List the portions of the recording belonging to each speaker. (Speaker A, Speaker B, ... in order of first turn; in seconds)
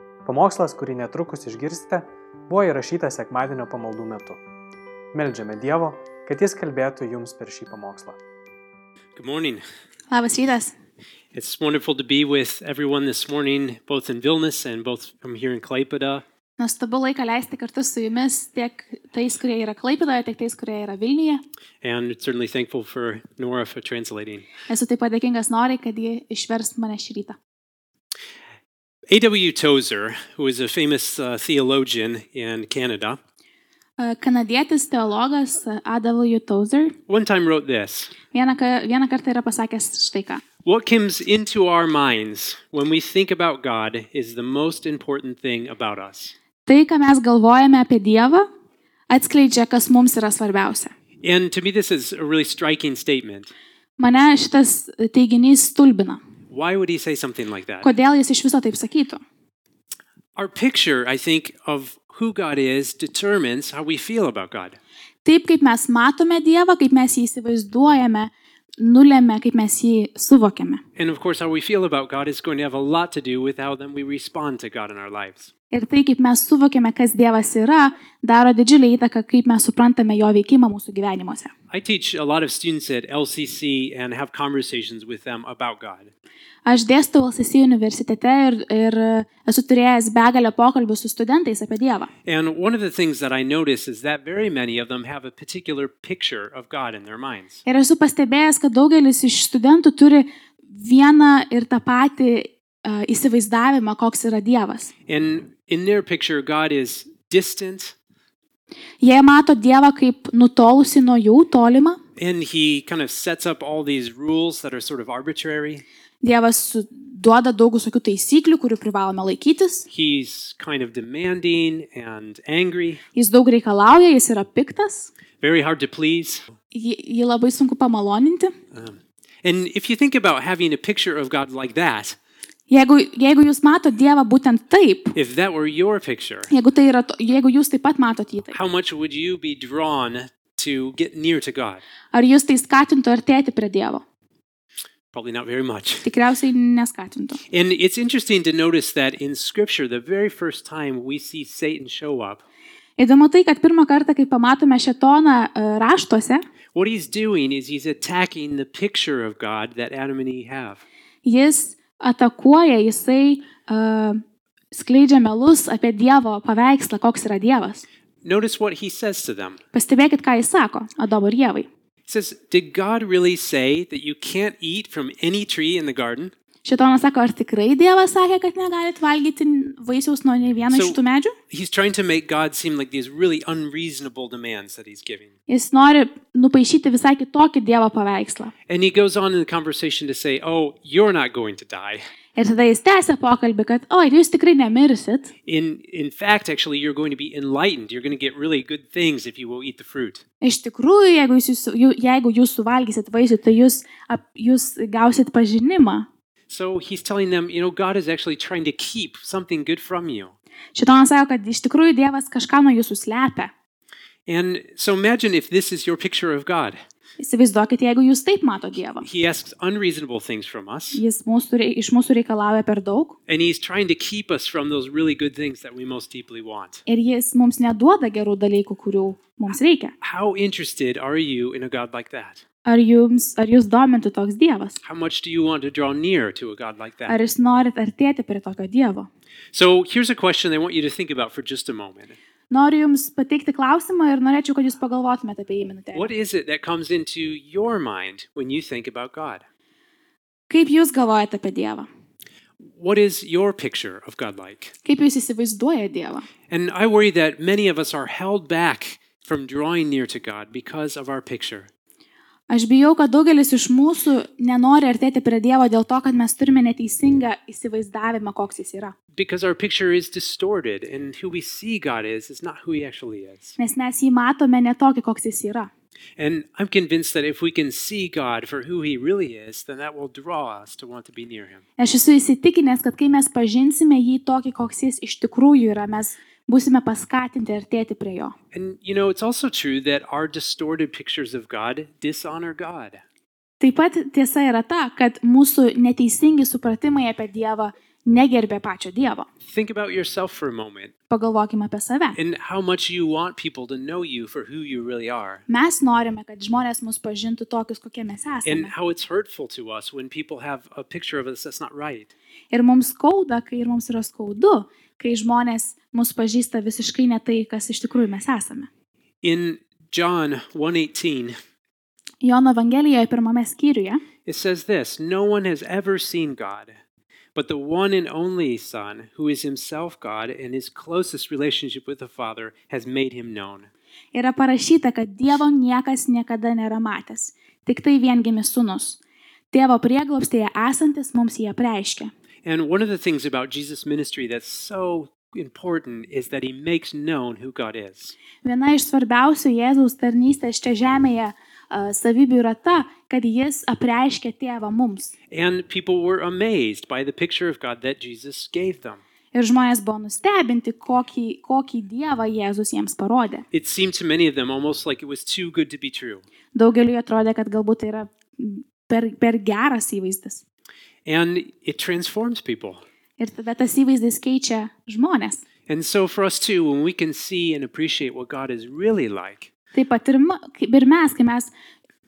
Speaker A: 0.2-4.4, 5.1-8.2
Speaker B: 9.2-9.6, 11.3-16.2, 21.8-24.5, 29.1-33.2, 37.1-38.1, 40.6-46.3, 51.2-53.5, 56.5-57.9, 60.4-64.8, 71.0-75.5, 81.7-86.1, 92.2-97.6, 105.1-107.9, 112.2-115.8, 119.9-123.0, 125.4-126.5, 128.7-132.2, 135.1-136.5, 138.5-141.8, 145.1-146.1, 147.5-152.4, 156.7-160.8, 168.2-169.6, 172.1-176.3, 180.7-181.0, 181.5-185.3, 188.7-192.0, 195.4-200.2, 206.5-210.3, 214.3-216.8, 219.0-221.0, 223.3-226.8, 230.0-232.4, 234.8-237.2, 239.5-242.2, 245.9-249.4, 252.7-254.7, 256.5-261.7, 269.1-273.6, 276.2-281.6, 288.5-293.0, 299.4-300.9, 302.1-305.4, 308.4-312.1, 319.2-321.4, 324.2-326.7, 327.3-333.7, 342.4-348.2, 355.3-359.0, 363.5-366.2, 371.1-372.8, 375.7-379.5
Speaker C: 10.1-10.7, 16.6-21.4, 24.7-27.4, 34.0-37.0, 38.3-40.4, 46.6-48.5, 49.1-50.9, 54.0-56.2, 57.8-59.2, 65.2-70.8, 75.7-81.5, 86.7-92.1, 97.7-104.9, 109.0-112.0, 116.2-119.9, 123.1-125.1, 126.7-128.5, 132.7-135.1, 136.5-138.6, 142.1-144.0, 146.0-147.4, 153.0-156.4, 161.2-167.8, 169.7-171.7, 176.6-181.3, 185.5-188.5, 192.3-195.3, 200.4-206.1, 210.7-213.5, 217.2-219.1, 220.9-223.2, 226.8-229.9, 232.7-234.8, 237.1-239.1, 242.5-246.1, 250.5-251.9, 254.8-256.2, 262.5-268.9, 273.6-275.7, 281.8-288.3, 293.6-299.3, 301.1-302.2, 305.5-308.7, 312.5-318.7, 322.2-324.0, 334.1-339.0, 339.5-342.1, 348.4-355.1, 359.3-363.4, 366.5-370.4, 373.2-375.4, 379.7-381.5